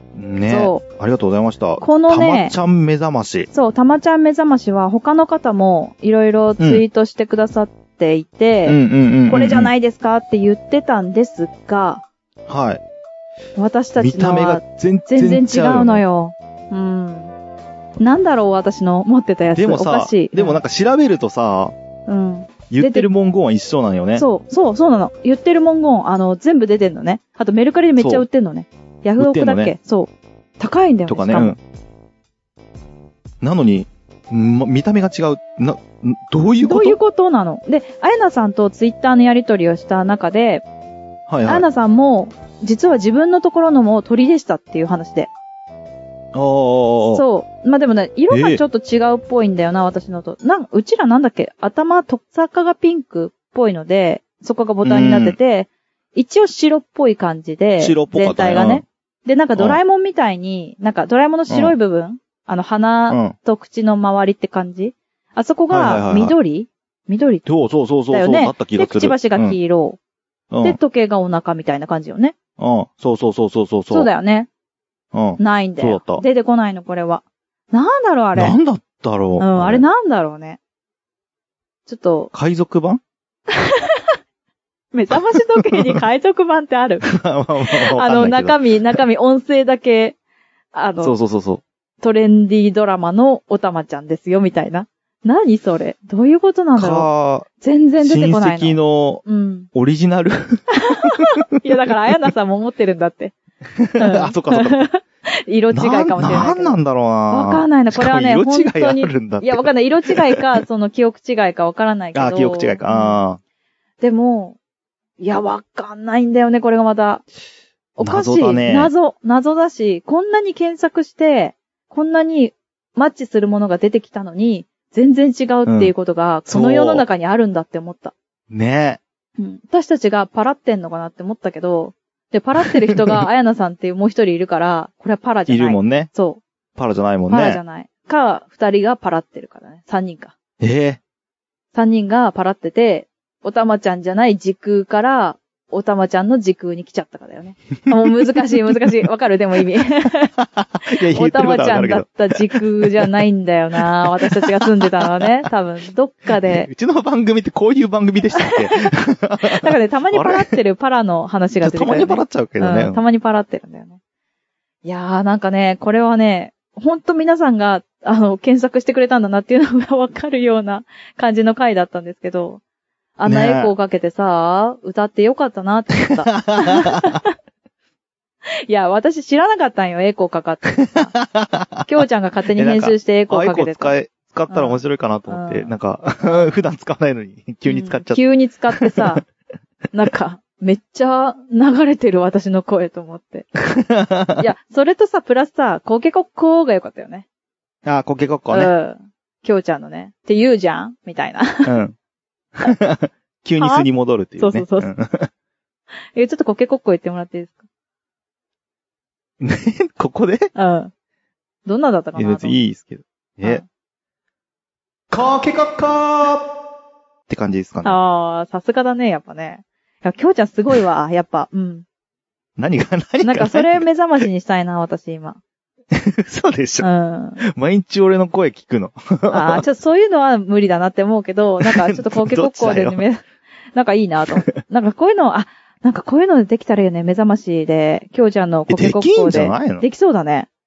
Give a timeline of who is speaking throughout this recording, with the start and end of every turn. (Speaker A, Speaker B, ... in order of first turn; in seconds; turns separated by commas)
Speaker A: 0.1-3.5, Speaker B: 0.5-0.8, Speaker B: 1.8-2.6, Speaker B: 3.5-12.0, Speaker A: 8.7-9.7, Speaker A: 12.5-12.8, Speaker B: 13.6-17.3, Speaker A: 14.0-16.0, Speaker B: 18.0-20.6, Speaker A: 19.5-21.7, Speaker B: 22.1-23.1, Speaker A: 22.7-24.3, Speaker B: 24.1-31.6, Speaker A: 28.0-28.2, Speaker A: 29.2-29.7, Speaker A: 31.1-31.6, Speaker A: 33.4-37.0, Speaker B: 36.6-40.6, Speaker A: 41.3-41.7, Speaker B: 41.5-45.3, Speaker A: 46.3-47.2, Speaker B: 47.1-67.5, Speaker A: 48.3-48.6, Speaker A: 54.8-55.4, Speaker A: 57.8-58.9, Speaker A: 61.5-61.8, Speaker A: 65.7-66.3, Speaker A: 67.5-69.6, Speaker B: 68.1-70.0, Speaker A: 70.5-70.8, Speaker B: 70.6-72.4, Speaker A: 72.6-74.1, Speaker B: 73.9-74.5, Speaker A: 75.1-76.2, Speaker B: 75.4-78.6, Speaker A: 78.4-79.8, Speaker B: 79.4-80.6, Speaker B: 81.9-82.3, Speaker A: 82.3-83.0, Speaker B: 83.5-84.1, Speaker B: 84.9-87.1, Speaker A: 85.1-86.0, Speaker A: 87.0-89.0, Speaker B: 87.7-90.2, Speaker B: 90.7-91.2, Speaker A: 91.0-91.6, Speaker B: 92.0-97.1, Speaker A: 96.8-97.5, Speaker B: 97.6-99.7, Speaker A: 98.0-101.2, Speaker B: 100.8-103.3, Speaker A: 103.8-104.9, Speaker B: 104.0-106.8, Speaker A: 105.7-110.6, Speaker B: 107.3-113.2, Speaker A: 112.2-113.4, Speaker B: 114.0-114.6, Speaker B: 115.2-117.2, Speaker B: 118.0-128.1, Speaker A: 118.0-118.9, Speaker A: 125.7-125.9, Speaker A: 126.5-127.0, Speaker A: 128.5-129.0, Speaker B: 129.4-136.4, Speaker A: 132.9-133.2, Speaker A: 135.5-136.1, Speaker A: 136.8-137.6, Speaker B: 137.3-140.3, Speaker A: 140.6-141.0, Speaker B: 141.7-150.3, Speaker A: 150.6-153.1, Speaker B: 150.8-156.7, Speaker A: 154.2-155.2, Speaker A: 156.4-160.5, Speaker B: 158.3-158.9, Speaker B: 159.4-164.0, Speaker A: 161.6-163.0, Speaker B: 164.8-172.6, Speaker B: 173.2-177.3, Speaker A: 173.3-173.7, Speaker A: 176.2-177.2, Speaker B: 178.7-181.2, Speaker A: 180.9-181.9, Speaker B: 181.9-184.0, Speaker A: 182.6-188.2, Speaker B: 184.5-185.7, Speaker B: 187.7-189.2, Speaker A: 188.7-189.2, Speaker B: 189.9-193.5, Speaker A: 193.6-194.5, Speaker B: 194.4-197.3, Speaker A: 197.8-198.7, Speaker B: 198.5-201.7, Speaker A: 201.7-202.0, Speaker A: 202.6-205.3, Speaker B: 203.6-203.9, Speaker B: 204.4-204.9, Speaker B: 206.2-207.7, Speaker A: 209.4-210.5, Speaker B: 210.6-210.9, Speaker B: 211.7-212.6, Speaker A: 212.2-213.6, Speaker A: 215.1-216.5, Speaker A: 217.3-218.0, Speaker B: 217.8-221.8, Speaker A: 222.6-223.8, Speaker B: 223.2-225.4, Speaker A: 225.9-226.9, Speaker B: 226.8-227.4, Speaker A: 227.4-229.6, Speaker B: 229.3-240.5, Speaker A: 231.6-233.0, Speaker A: 238.7-239.9